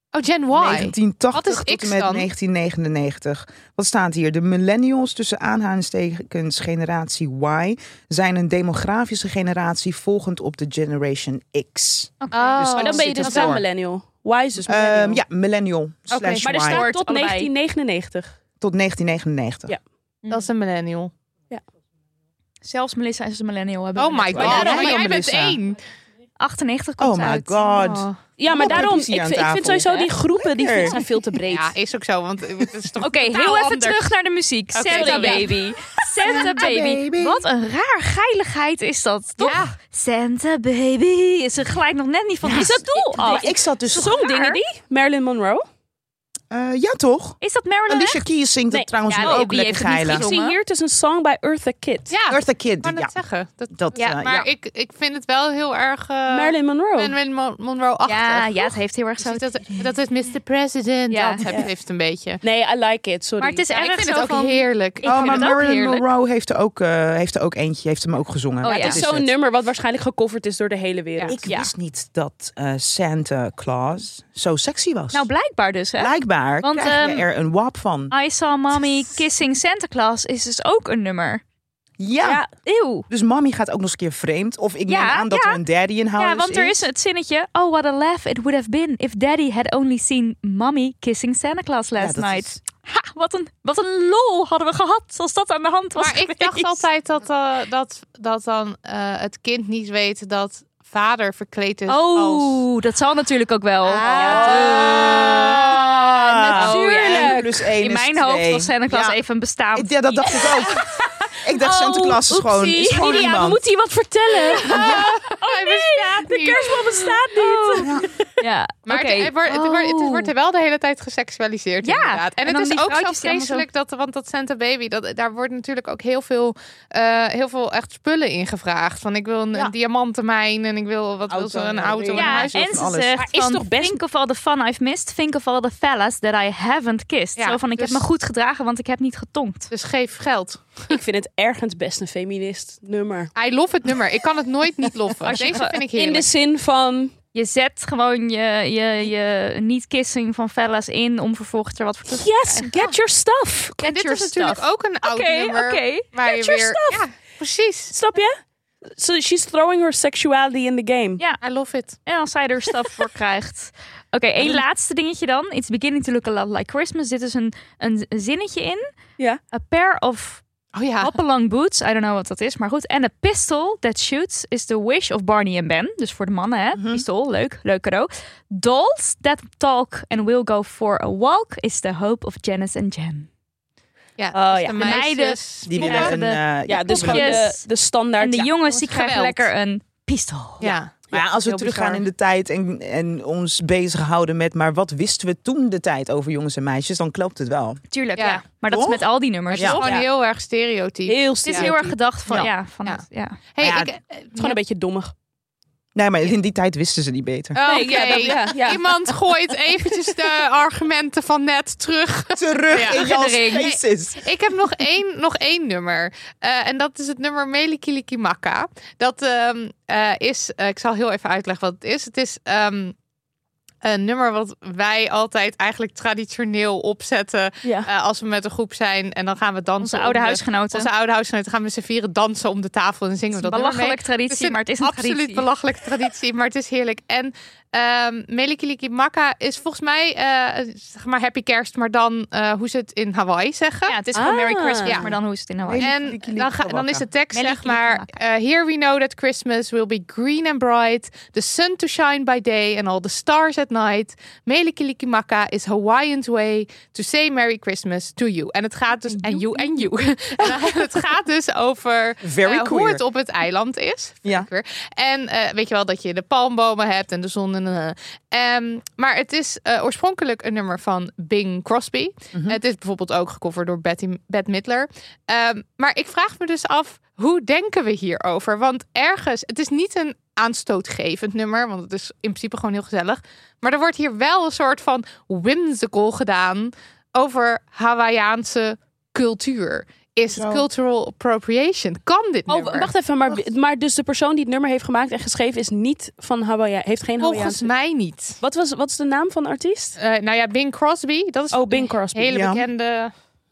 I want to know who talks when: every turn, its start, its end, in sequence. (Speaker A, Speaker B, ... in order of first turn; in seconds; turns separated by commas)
Speaker A: 0.1-2.3, Speaker B: 0.5-13.6, Speaker C: 12.2-13.1, Speaker A: 12.3-13.5, Speaker D: 12.8-15.2, Speaker B: 14.7-16.8, Speaker A: 16.1-16.4, Speaker D: 16.4-18.3, Speaker C: 16.5-17.5, Speaker B: 18.6-19.8, Speaker A: 20.3-21.1, Speaker C: 22.6-25.0, Speaker A: 23.9-25.8, Speaker B: 24.3-25.6, Speaker D: 24.4-25.0, Speaker C: 26.4-27.8, Speaker B: 27.0-31.0, Speaker A: 27.8-28.2, Speaker D: 28.4-31.7, Speaker A: 31.4-34.1, Speaker C: 33.0-44.6, Speaker A: 34.7-35.5, Speaker D: 34.9-35.5, Speaker B: 36.2-37.4, Speaker A: 39.4-39.7, Speaker B: 42.4-44.1, Speaker D: 42.5-45.6, Speaker B: 46.5-50.3, Speaker C: 47.4-48.2, Speaker D: 48.7-49.5, Speaker C: 49.0-50.5, Speaker D: 50.0-52.1, Speaker A: 52.1-62.4, Speaker B: 52.3-53.1, Speaker B: 53.7-54.5, Speaker C: 53.9-54.2, Speaker D: 56.3-57.1, Speaker C: 58.0-59.5, Speaker C: 61.1-61.4, Speaker D: 62.4-63.6, Speaker C: 63.4-66.0, Speaker A: 63.7-65.5, Speaker B: 65.0-69.3, Speaker C: 68.6-69.0, Speaker D: 68.7-71.4, Speaker B: 71.2-75.3, Speaker C: 71.4-71.7, Speaker C: 75.1-77.2, Speaker B: 76.0-78.1, Speaker C: 78.1-81.4, Speaker B: 82.0-82.4, Speaker D: 82.2-82.5, Speaker C: 82.6-83.1, Speaker B: 83.1-86.9, Speaker C: 84.9-85.6, Speaker C: 86.2-96.8, Speaker B: 92.0-92.6, Speaker A: 96.0-102.6, Speaker C: 101.9-105.6, Speaker A: 103.8-105.0, Speaker D: 104.0-105.2, Speaker B: 104.1-109.2, Speaker C: 106.2-110.5, Speaker D: 106.5-107.6, Speaker B: 109.7-110.8, Speaker B: 111.4-113.6, Speaker D: 111.6-115.1, Speaker C: 112.6-113.0, Speaker A: 114.7-116.8, Speaker C: 114.7-116.1, Speaker D: 116.0-118.3, Speaker C: 117.0-117.9, Speaker B: 117.8-118.1, Speaker C: 118.4-120.3, Speaker A: 118.9-132.6, Speaker C: 121.8-123.7, Speaker B: 131.3-133.2, Speaker C: 132.1-139.7, Speaker D: 133.2-134.0, Speaker A: 137.4-138.0, Speaker A: 139.7-141.0, Speaker D: 140.9-143.3, Speaker A: 143.3-146.3, Speaker C: 145.2-145.8, Speaker D: 145.4-147.1, Speaker C: 147.3-152.7, Speaker D: 152.1-153.8, Speaker C: 153.8-156.1, Speaker A: 153.8-157.9, Speaker D: 156.2-157.0, Speaker D: 157.9-158.4, Speaker D: 158.9-161.2, Speaker A: 161.4-162.0, Speaker C: 162.0-168.9, Speaker C: 169.5-170.4, Speaker A: 170.7-171.1, Speaker C: 171.0-183.3, Speaker B: 176.7-177.0, Speaker A: 184.2-186.1, Speaker D: 184.3-185.0, Speaker C: 184.8-190.7, Speaker B: 185.6-187.4, Speaker D: 186.7-188.5, Speaker A: 188.7-189.5, Speaker A: 190.6-190.9, Speaker D: 191.1-192.0, Speaker B: 191.1-197.8, Speaker C: 197.9-200.0, Speaker A: 198.2-198.4, Speaker B: 198.7-199.8, Speaker A: 199.5-201.7, Speaker D: 201.1-201.9, Speaker C: 201.4-203.4, Speaker A: 202.3-204.6, Speaker B: 203.6-203.9, Speaker D: 204.3-205.1, Speaker B: 205.9-208.3, Speaker A: 207.5-222.9, Speaker D: 207.6-208.9, Speaker B: 212.3-214.2, Speaker C: 212.7-213.7, Speaker A: 223.8-244.0, Speaker D: 227.6-227.9, Speaker C: 229.8-230.9, Speaker C: 233.3-235.5, Speaker C: 243.9-246.1, Speaker D: 244.1-245.0, Speaker A: 244.8-245.1, Speaker B: 245.7-247.1, Speaker A: 245.8-292.9, Speaker C: 247.3-248.1, Speaker B: 262.2-263.0, Speaker B: 272.3-272.6, Speaker B: 290.3-290.6, Speaker D: 292.5-297.7, Speaker A: 297.2-298.4, Speaker D: 298.4-300.0, Speaker A: 300.0-303.1, Speaker D: 301.5-302.5, Speaker B: 302.3-302.6